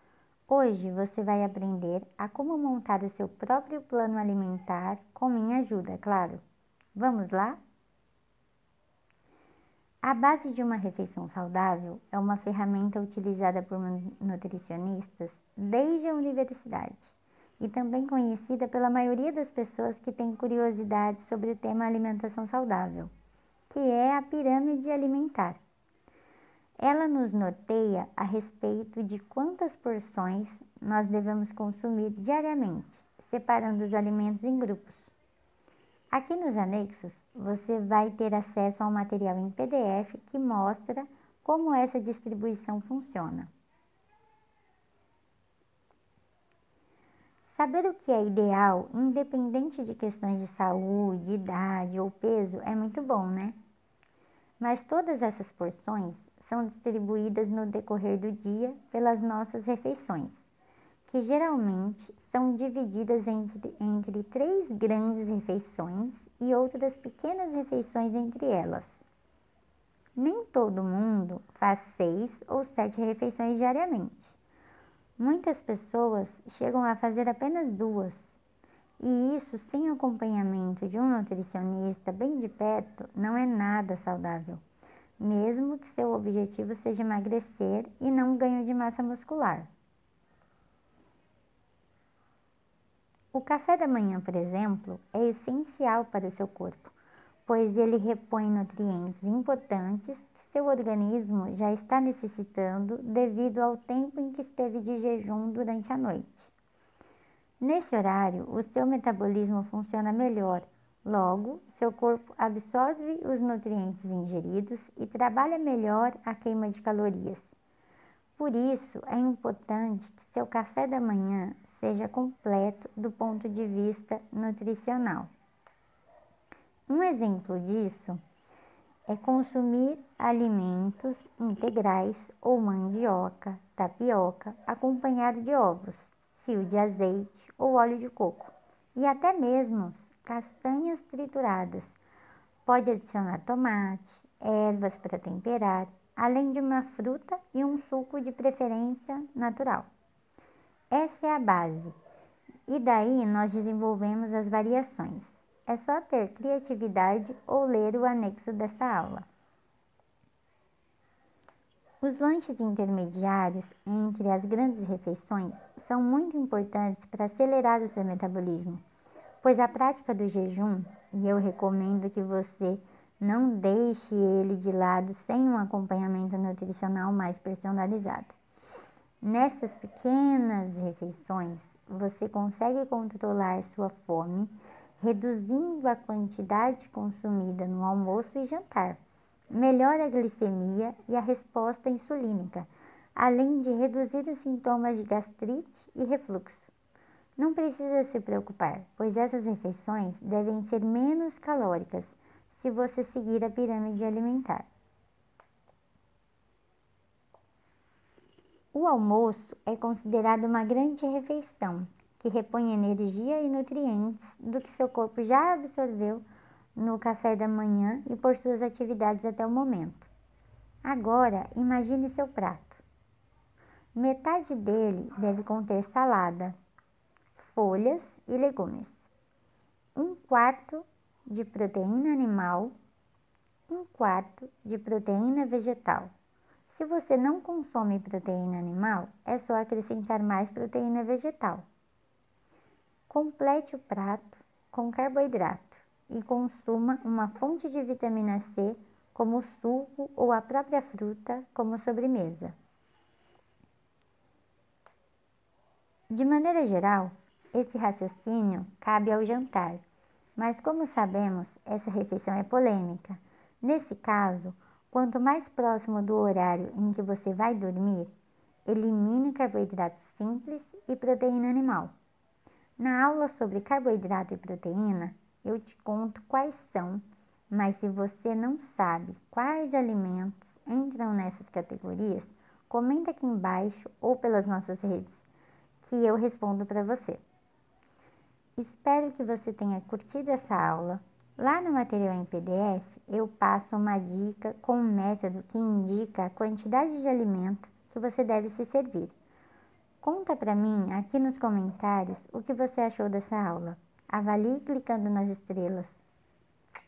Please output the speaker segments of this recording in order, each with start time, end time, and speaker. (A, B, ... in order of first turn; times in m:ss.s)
0:00.5-0:06.4 A
0:06.9-0:07.6 A
0:10.0-0:23.1 A
0:23.7-0:25.6 A
0:26.8-0:35.1 A
0:36.1-0:43.5 A
0:47.4-0:53.6 A
0:54.6-1:00.4 A
1:01.1-1:09.0 A
1:10.2-1:14.4 A
1:15.2-1:18.3 A
1:19.0-1:24.6 A
1:25.2-1:29.7 A
1:33.3-1:36.9 A
1:37.4-1:46.5 A
1:47.6-1:57.5 A
1:58.4-2:05.3 A
2:06.9-2:08.2 A
2:09.1-2:22.0 A
2:22.6-2:29.9 A
2:30.9-2:32.0 A
2:32.7-2:39.3 A
2:42.0-2:48.8 A
2:49.4-2:58.4 A
2:59.2-3:09.0 A
3:09.5-3:16.7 A
3:17.4-3:24.7 A
3:28.7-3:36.2 A
3:36.8-3:40.1 A
3:40.8-3:42.8 A
3:43.9-3:46.6 A
3:47.4-3:49.0 A
3:49.9-3:52.7 A
3:53.7-3:56.1 A
3:56.7-4:01.6 A
4:03.1-4:12.6 A
4:16.1-4:19.8 A
4:20.4-4:28.1 A
4:28.7-4:31.9 A
4:32.8-4:45.2 A
4:45.8-4:47.2 A
4:48.6-4:59.1 A
5:00.0-5:06.0 A